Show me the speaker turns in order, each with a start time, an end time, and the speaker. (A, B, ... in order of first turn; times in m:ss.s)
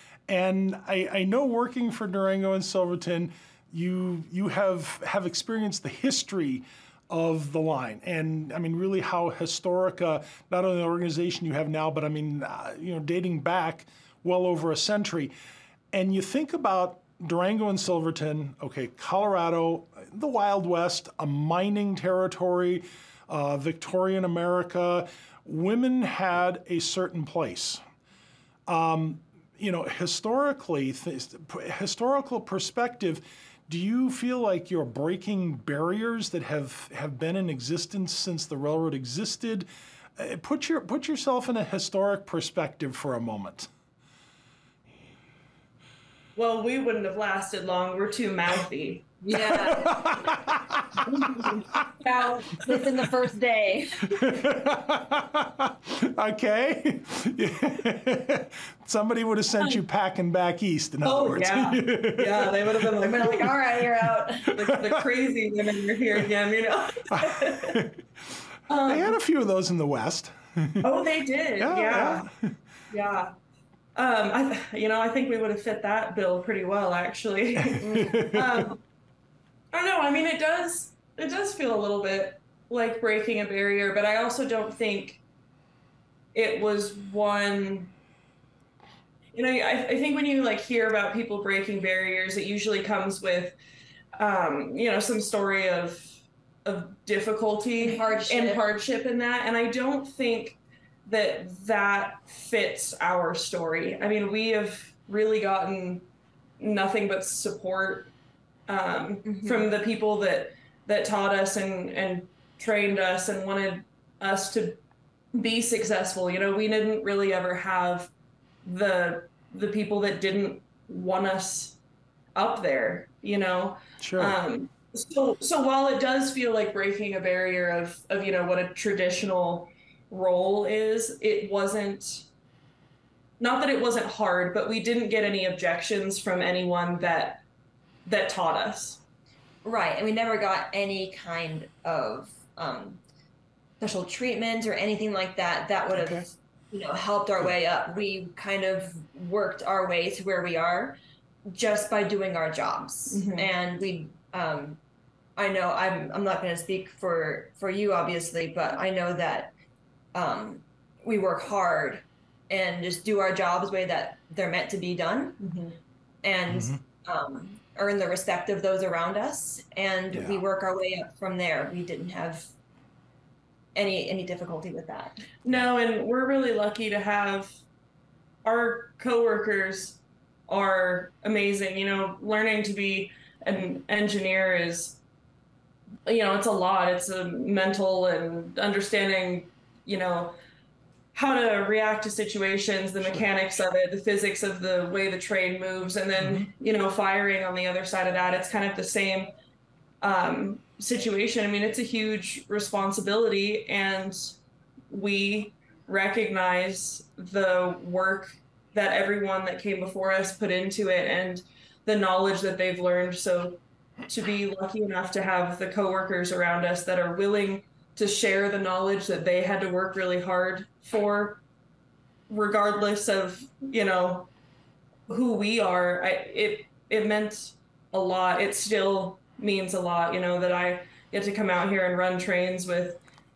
0:00.3-0:15.3 A
0:15.9-0:27.8 A
0:28.7-0:39.7 A
0:40.2-0:43.7 A
0:46.4-0:49.2 B
0:49.2-0:50.2 C
0:49.4-0:51.9 A
0:51.2-0:54.2 C
0:54.1-1:03.4 A
1:01.0-1:03.6 B
1:03.0-1:04.5 C
1:04.5-1:07.8 B
1:04.7-1:05.0 A
1:07.1-1:08.0 A
1:08.7-1:09.2 B
1:08.8-1:10.9 A
1:10.8-1:12.3 B
1:11.6-1:12.5 A
1:12.9-1:13.3 B
1:14.0-1:18.8 B
1:17.6-1:18.6 A
1:19.7-1:25.2 B
1:26.3-1:27.9 B
1:29.3-1:33.6 B
1:34.2-1:46.1 B
1:37.8-1:38.6 C
1:46.6-1:48.1 B
1:48.7-1:54.8 B
1:49.3-1:49.7 C
1:55.3-1:58.1 B
1:58.6-2:01.8 B
2:02.4-2:12.3 B
2:04.0-2:04.4 A
2:13.4-2:17.4 B
2:18.1-2:19.0 B
2:19.6-2:23.0 C
2:23.8-2:34.8 C
2:26.0-2:26.2 A
2:33.1-2:33.5 B
2:35.4-2:39.5 C
2:40.1-2:45.4 C
2:45.4-2:45.8 B
2:46.2-2:52.5 C
2:46.5-2:46.8 A
2:50.1-2:50.4 A
2:53.8-2:55.2 C
2:55.4-2:57.6 B
2:58.4-3:05.0 B
3:06.1-3:10.4 B
3:11.1-3:19.3 B
3:16.2-3:16.5 A
3:20.0-3:24.3 B
3:24.9-3:41.4 B
3:42.3-3:44.3 B
3:45.1-3:53.0 B